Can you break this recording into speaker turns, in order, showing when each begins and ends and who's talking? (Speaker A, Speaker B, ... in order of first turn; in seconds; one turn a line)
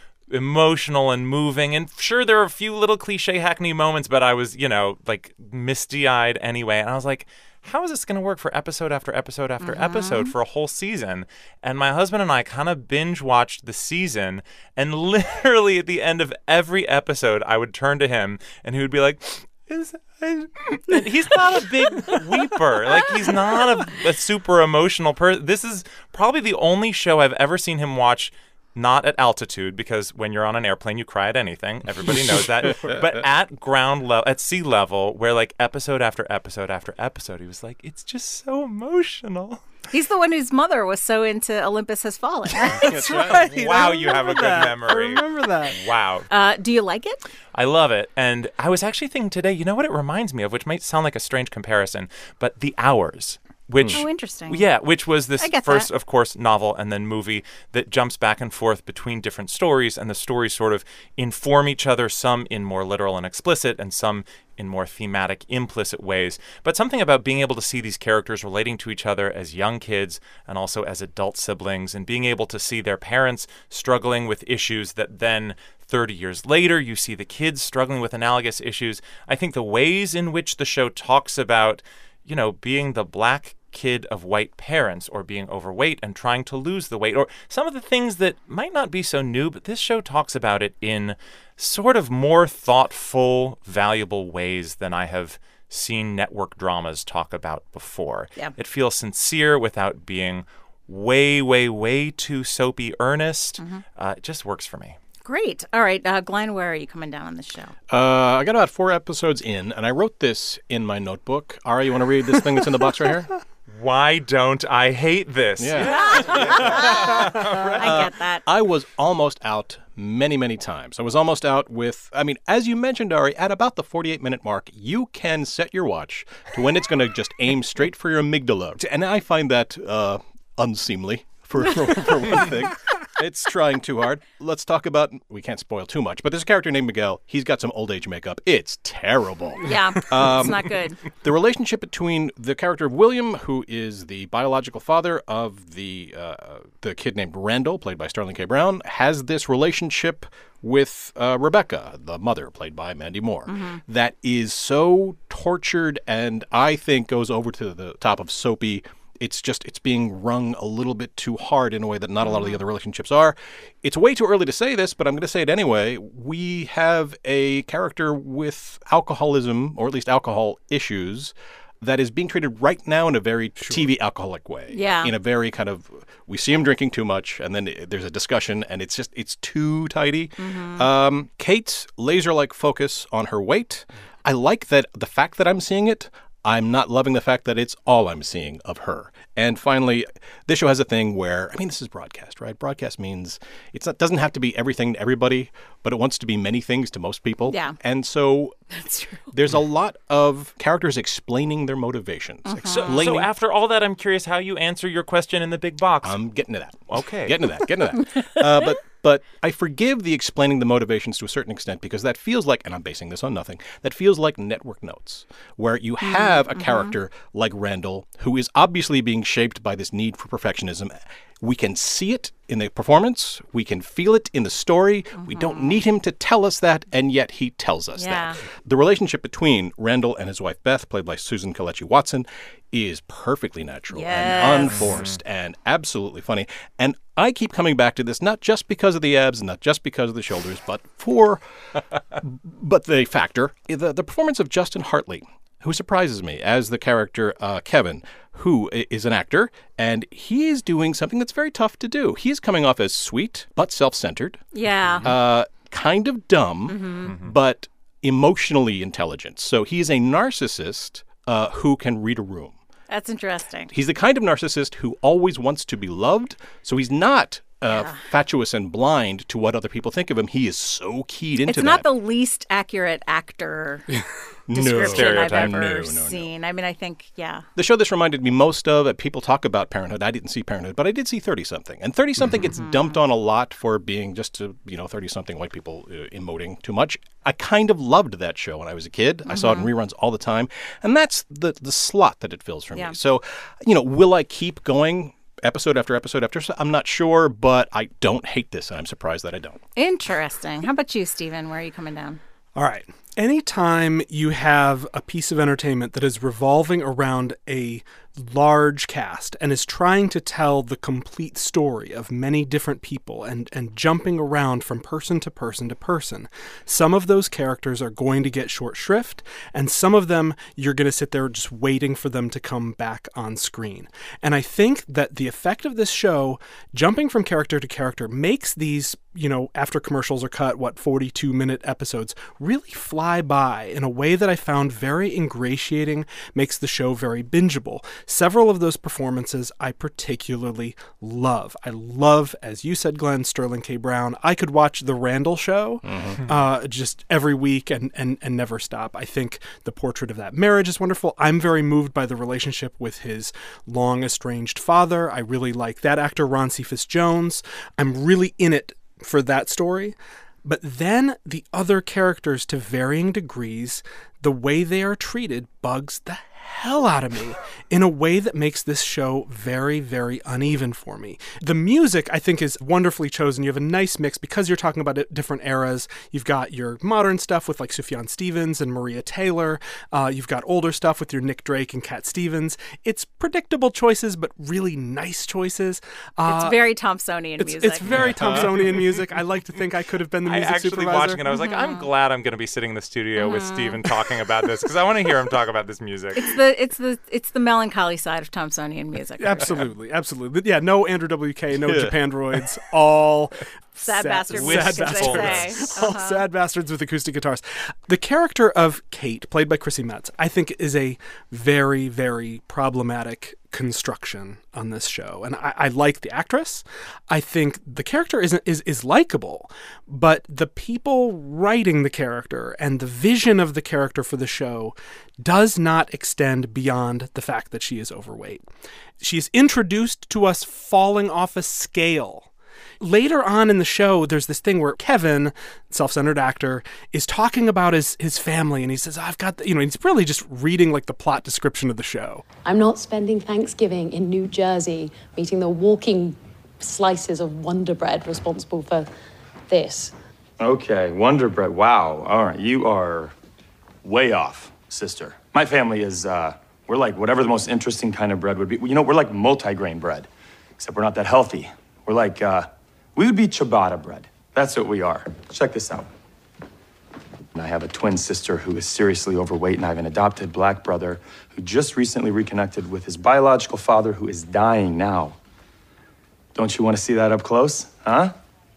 Speaker A: 0.3-39.7
Speaker B: 9.6-10.3
Speaker C: 32.1-33.1
Speaker B: 39.9-43.0
Speaker D: 42.8-45.8
Speaker C: 42.8-43.5
Speaker A: 43.3-46.3
Speaker B: 46.3-47.2
Speaker A: 47.5-105.0
Speaker B: 53.9-54.6
Speaker B: 55.4-55.9
Speaker B: 105.2-107.7
Speaker C: 107.9-113.3
Speaker A: 113.7-117.8
Speaker C: 115.6-198.6
Speaker B: 115.8-118.4
Speaker B: 139.7-141.0
Speaker B: 153.5-153.8
Speaker B: 162.2-162.6
Speaker D: 173.6-173.9
Speaker B: 174.7-175.1
Speaker B: 180.4-180.9
Speaker B: 197.5-197.8
Speaker B: 198.7-199.3
Speaker C: 199.3-203.3
Speaker B: 202.4-203.0
Speaker A: 202.7-206.2
Speaker C: 206.0-254.5
Speaker A: 206.9-207.4
Speaker B: 216.0-216.9
Speaker B: 225.2-225.8
Speaker B: 228.0-228.4
Speaker B: 233.9-234.8
Speaker A: 234.8-235.2
Speaker B: 254.5-255.1
Speaker C: 255.0-262.6
Speaker B: 256.7-257.1
Speaker A: 257.1-257.3
Speaker B: 262.9-263.7
Speaker C: 263.7-271.9
Speaker B: 267.7-268.0
Speaker B: 271.5-273.9
Speaker C: 274.5-276.3
Speaker B: 274.5-277.4
Speaker A: 274.9-275.5
Speaker C: 277.6-299.6
Speaker B: 282.4-283.0
Speaker B: 289.3-289.7
Speaker B: 299.8-302.2
Speaker D: 302.6-386.6
Speaker C: 345.9-346.2
Speaker B: 386.3-387.9
Speaker D: 387.4-391.2
Speaker C: 387.9-388.5
Speaker A: 388.1-388.9
Speaker A: 390.3-396.2
Speaker B: 391.3-391.9
Speaker B: 393.2-393.8
Speaker B: 396.2-399.6
Speaker D: 399.2-428.5
Speaker C: 401.6-401.9
Speaker B: 403.8-406.2
Speaker A: 404.4-405.6
Speaker D: 429.0-442.2
Speaker E: 442.4-448.9
Speaker E: 449.5-449.9
Speaker F: 450.4-453.1
Speaker F: 453.8-465.9
Speaker F: 467.4-475.2
Speaker F: 476.4-478.1